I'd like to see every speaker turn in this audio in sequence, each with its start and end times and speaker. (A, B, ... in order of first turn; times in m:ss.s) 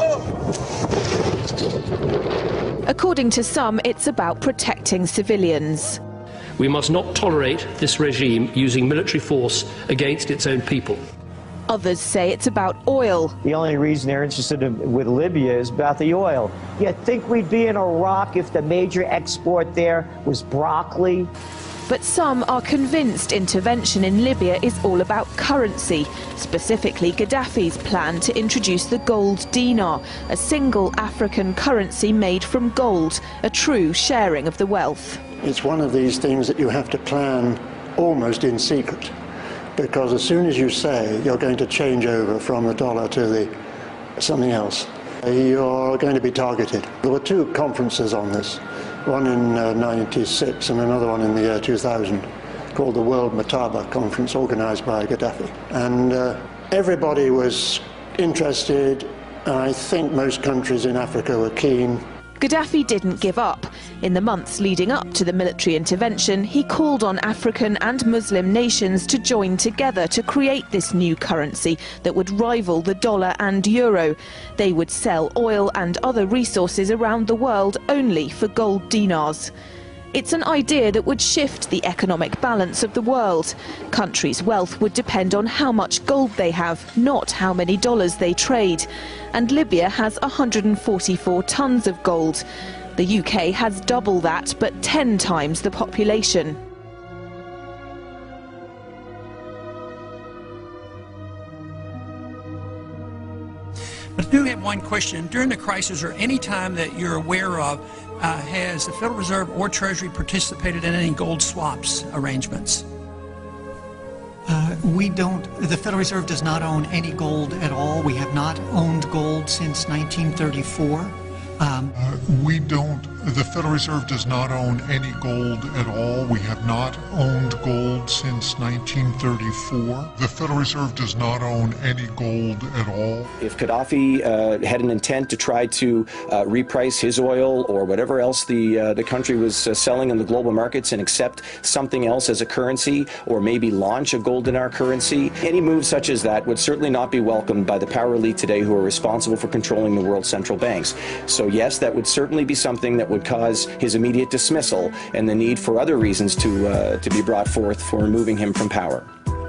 0:02.9-0:06.0 A
0:06.6-0:11.0 B
0:11.7-0:13.4 A
0:13.4-0:21.3 C
0:21.9-0:35.2 A
0:35.4-0:39.0 D
0:39.8-0:43.4 D
0:44.2-0:48.6 D
0:49.1-0:52.2 D
0:52.8-1:02.0 D
1:02.4-1:19.5 A
1:20.1-1:32.4 A
1:33.0-1:36.6 A
1:44.5-1:46.1 E
1:46.7-1:47.4 E
1:48.6-1:49.4 E
1:54.5-2:01.9 F
2:02.2-2:13.3 G
2:13.4-2:39.1 H